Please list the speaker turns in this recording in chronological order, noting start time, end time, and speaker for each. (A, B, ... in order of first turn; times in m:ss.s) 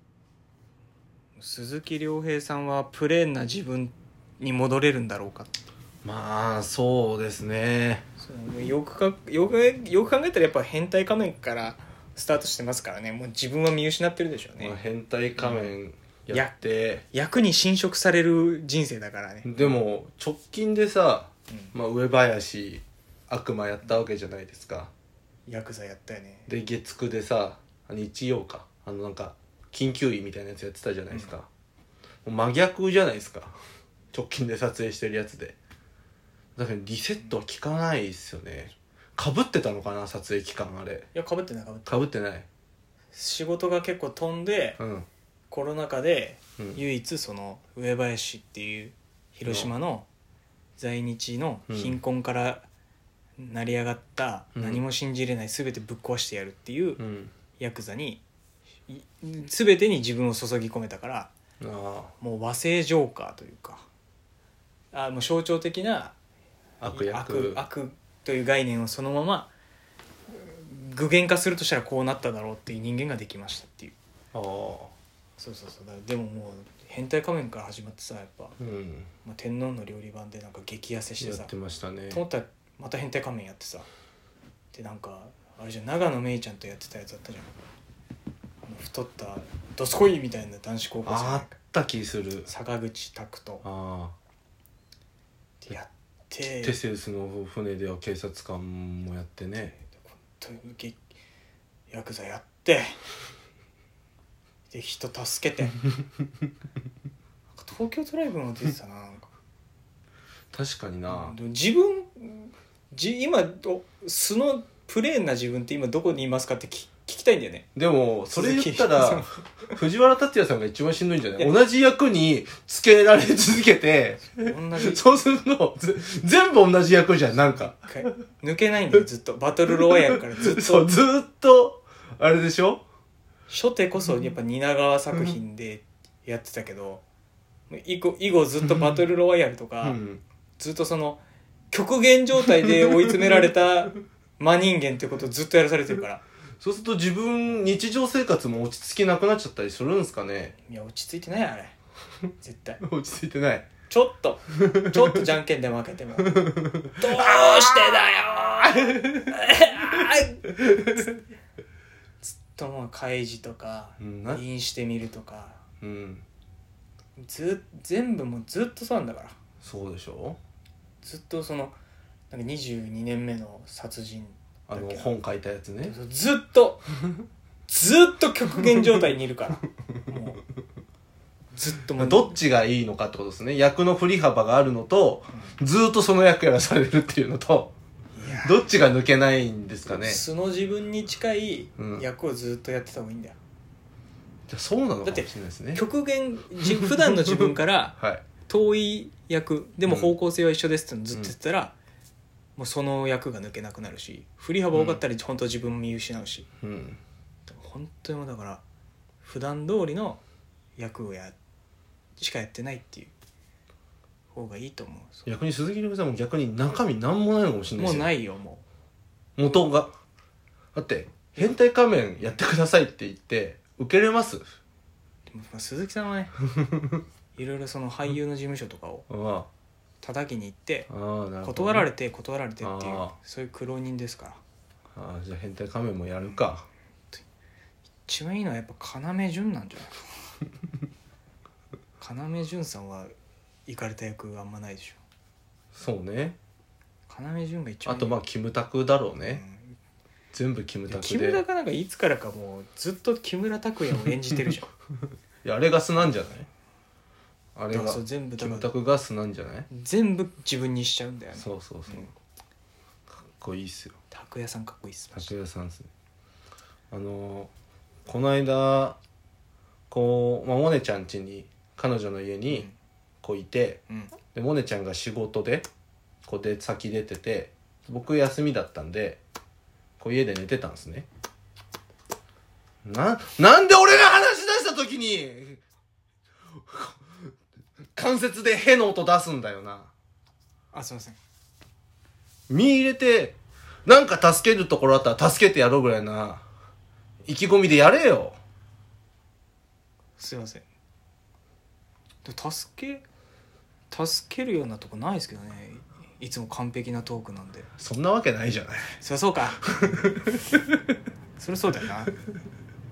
0:01.4-0:05.5 A
0:06.0-0:08.1 B
0:08.2-0:14.8 A
0:14.6-0:17.0 B
0:15.4-0:15.7 A
0:17.1-0:19.8 A
0:19.4-0:24.9 B
0:25.5-0:26.5 A
0:26.5-0:31.5 B
0:32.2-0:33.5 B
0:34.1-0:35.6 B
0:36.6-0:41.1 B
0:41.2-0:42.0 A
0:41.9-0:42.5 B
0:43.1-0:44.8 A
0:44.8-0:45.1 B
0:45.5-0:50.1 A
0:49.5-0:49.7 B
0:50.8-0:52.6 A
0:51.7-0:52.0 B
0:53.4-0:57.0 A
0:54.6-0:54.8 B
0:57.0-0:57.3 B
0:57.6-0:58.2 A
0:58.9-1:01.3 A
1:01.6-1:02.1 B
1:02.2-1:03.8 A
1:04.9-1:06.2 A
1:06.8-1:07.6 B
1:06.9-1:09.5 A
1:10.3-1:14.0 A
1:14.3-1:14.9 B
1:15.4-1:18.6 A
1:18.6-1:19.1 B
1:19.2-1:21.5 A
1:21.2-1:22.2 B
1:22.1-1:23.9 A
1:24.7-1:27.5 A
1:28.6-1:31.6 A
1:31.0-1:32.5 B
1:32.5-1:33.6 A
1:33.6-1:34.2 B
1:35.6-1:36.8 A
1:36.6-1:39.8 B
1:40.0-1:41.0 A
1:41.9-1:43.0 A
1:44.7-1:45.8 A
1:47.6-1:49.3 A
1:50.5-1:51.4 B
1:51.1-1:57.7 A
1:57.8-2:08.1 B
1:58.3-1:59.3 A
2:04.3-2:05.0 A
2:07.9-2:10.9 A
2:10.2-2:12.8 B
2:13.5-2:17.0 A
2:17.7-2:20.0 A
2:19.8-2:20.2 B
2:20.6-2:21.2 A
2:21.7-2:26.2 A
2:26.6-2:30.6 B
2:30.7-2:31.8 A
2:32.4-2:32.8 A
2:32.8-2:33.7 B
2:33.9-2:36.4 A
2:36.2-2:39.3 B
2:36.9-2:40.4 A
2:42.2-2:45.6 A
2:44.0-2:44.4 B
2:45.8-2:46.2 B
2:47.2-2:49.4 A
2:49.6-2:50.4 B
2:51.0-2:51.8 A
2:52.3-2:55.1 A
2:54.7-2:55.9 B
2:55.8-2:56.8 A
2:57.7-3:00.4 A
3:01.5-3:02.4 A
3:02.0-3:07.7 B
3:08.2-3:08.6 A
3:08.3-3:10.2 B
3:09.9-3:13.4 A
3:11.8-3:12.0 B
3:14.5-3:15.8 B
3:15.0-3:21.7 A
3:17.3-3:18.2 B
3:19.9-3:20.1 B
3:22.6-3:26.5 A
3:24.7-3:25.0 B
3:26.6-3:27.0 B
3:27.5-3:28.6 A
3:29.2-3:30.2 A
3:30.8-3:31.4 A
3:32.2-3:33.1 A
3:34.3-3:35.3 A
3:35.3-3:38.1 B
3:37.8-3:38.6 A
3:39.4-3:39.9 B
3:40.8-3:44.4 B
3:42.2-3:42.4 A
3:45.3-3:46.4 A
3:47.4-3:49.1 A
3:49.1-3:49.5 B
3:50.0-3:50.9 A
3:50.9-3:51.9 B
3:51.4-3:54.4 A
3:52.6-3:53.2 B
3:55.0-3:56.7 B
3:58.1-4:00.0 A
4:02.0-4:03.1 A
4:03.7-4:05.0 A
4:05.8-4:06.4 B
4:07.1-4:08.1 A
4:07.9-4:09.4 B
4:09.3-4:09.7 A
4:10.3-4:11.4 B
4:10.9-4:14.7 A
4:15.4-4:16.5 B
4:17.6-4:19.7 B
4:17.7-4:18.7 A
4:19.7-4:22.1 A
4:21.4-4:22.1 B
4:23.2-4:24.0 B
4:24.1-4:25.3 A
4:25.1-4:25.9 B
4:26.9-4:27.5 B
4:28.1-4:29.0 B
4:29.9-4:32.7 B
4:32.5-4:32.7 A
4:33.2-4:33.8 B
4:34.3-4:35.7 B
4:36.3-4:39.2 B
4:40.0-4:41.1 B
4:42.8-4:45.6 B
4:46.7-4:47.0 B
4:48.0-4:49.9 B
4:50.7-4:51.2 A
4:52.5-4:56.4 B
4:57.3-4:58.4 B
5:00.2-5:00.7 A
5:02.2-5:03.0 A
5:03.9-5:07.7 A
5:07.8-5:09.0 B
5:09.0-5:09.8 A
5:09.6-5:10.6 B
5:11.4-5:12.1 A